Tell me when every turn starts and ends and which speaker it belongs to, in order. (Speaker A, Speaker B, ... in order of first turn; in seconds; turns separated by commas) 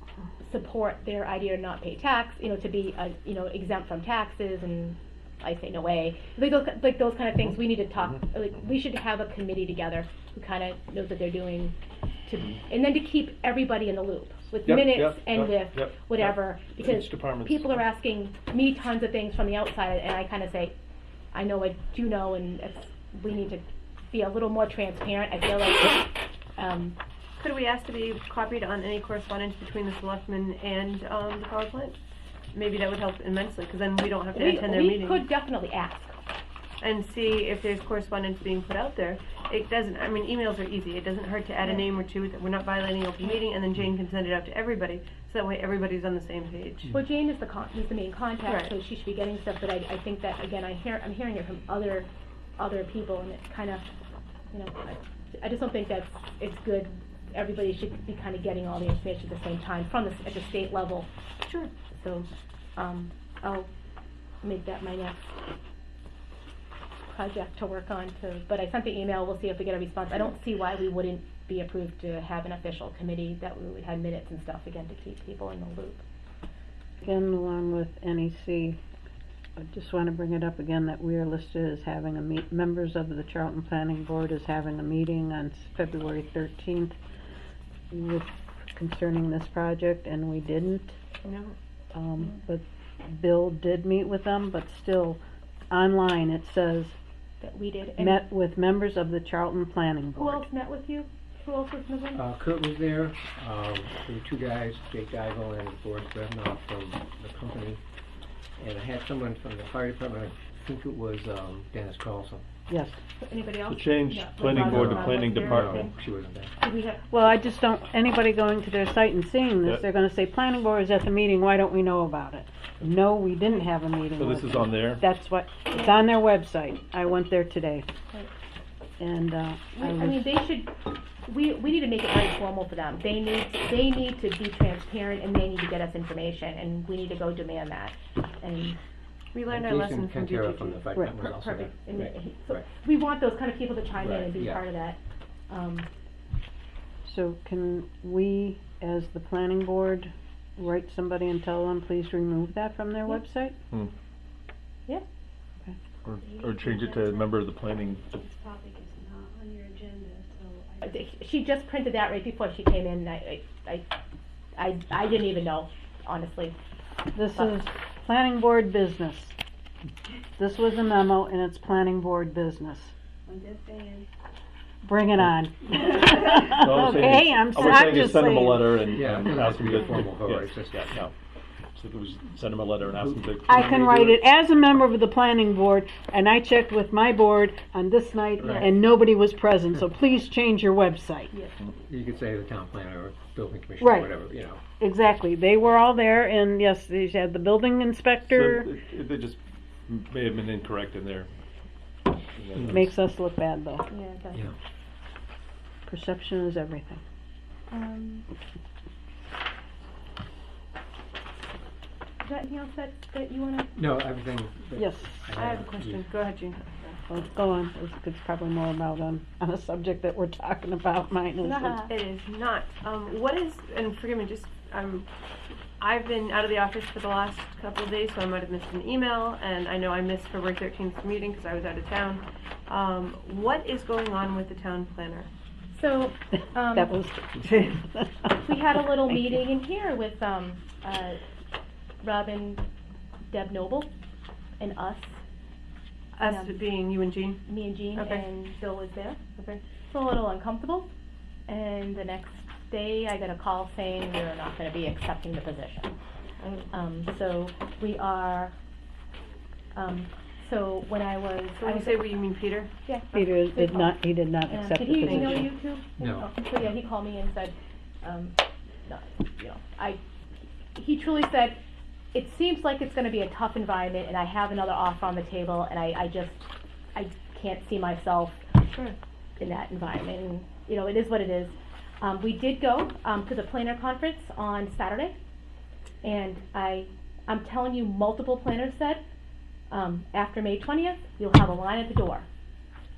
Speaker A: 0.4-11.7, Speaker A: 12.3-20.8, Speaker B: 14.6-17.8, Speaker A: 21.3-26.9, Speaker C: 27.4-32.0, Speaker C: 32.5-35.2, Speaker A: 34.3-36.1, Speaker C: 36.8-46.9, Speaker A: 46.9-53.8, Speaker A: 54.5-61.1, Speaker C: 61.5-61.7, Speaker A: 62.0-63.7, Speaker A: 64.4-65.2, Speaker A: 67.0-76.0, Speaker D: 77.0-78.8, Speaker D: 79.6-87.0, Speaker D: 87.9-91.0, Speaker C: 91.2-91.5, Speaker D: 91.9-95.2, Speaker D: 95.7-97.0, Speaker A: 97.4-98.2, Speaker D: 97.9-100.4, Speaker A: 100.2-102.2, Speaker E: 102.1-107.8, Speaker E: 108.6-112.4, Speaker D: 112.7-113.0, Speaker A: 113.2-115.9, Speaker B: 113.7-115.9, Speaker E: 114.4-116.5, Speaker A: 116.6-117.0, Speaker D: 117.1-127.9, Speaker B: 124.2-125.0, Speaker A: 125.7-126.0, Speaker D: 129.0-130.3, Speaker A: 129.7-130.7, Speaker A: 131.2-138.8, Speaker C: 139.3-140.9, Speaker E: 139.5-142.7, Speaker A: 141.1-145.9, Speaker B: 144.0-144.3, Speaker E: 144.3-144.6, Speaker D: 147.0-153.6, Speaker B: 156.0-158.2, Speaker F: 156.2-157.4, Speaker F: 158.1-160.8, Speaker A: 160.8-163.8, Speaker A: 164.6-166.6, Speaker D: 167.1-169.3, Speaker D: 170.4-172.9, Speaker F: 173.3-174.1, Speaker D: 174.8-179.0, Speaker B: 176.5-181.1, Speaker E: 178.9-181.0, Speaker B: 181.7-184.2, Speaker E: 183.1-183.6, Speaker D: 183.5-191.3, Speaker A: 188.4-188.7, Speaker B: 188.4-188.7, Speaker E: 191.8-194.6, Speaker D: 193.8-194.1, Speaker D: 194.8-198.7, Speaker B: 198.2-201.3, Speaker B: 202.3-202.9, Speaker E: 202.6-202.9, Speaker D: 202.7-203.9, Speaker A: 203.9-204.5, Speaker D: 205.9-207.0, Speaker A: 207.7-208.2, Speaker A: 212.2-213.7, Speaker E: 213.7-216.0, Speaker D: 214.8-215.2, Speaker C: 215.3-216.9, Speaker D: 217.1-221.8, Speaker A: 221.4-221.9, Speaker C: 221.9-225.1, Speaker C: 225.8-235.3, Speaker A: 235.7-236.9, Speaker D: 236.7-239.2, Speaker A: 238.4-241.2, Speaker A: 242.0-242.6, Speaker A: 243.3-243.9, Speaker A: 244.6-245.2, Speaker C: 246.2-247.4, Speaker A: 246.2-246.6, Speaker A: 247.4-250.9, Speaker C: 247.9-248.2, Speaker A: 251.5-255.9, Speaker C: 256.4-256.7, Speaker A: 256.7-258.5, Speaker A: 259.7-262.2, Speaker C: 261.6-262.7, Speaker A: 262.8-263.9, Speaker D: 263.1-265.5, Speaker A: 264.4-270.0, Speaker C: 265.0-265.5, Speaker E: 266.0-266.7, Speaker A: 270.7-271.6, Speaker A: 272.1-278.4, Speaker A: 279.4-285.1, Speaker A: 286.0-289.0, Speaker A: 289.7-292.3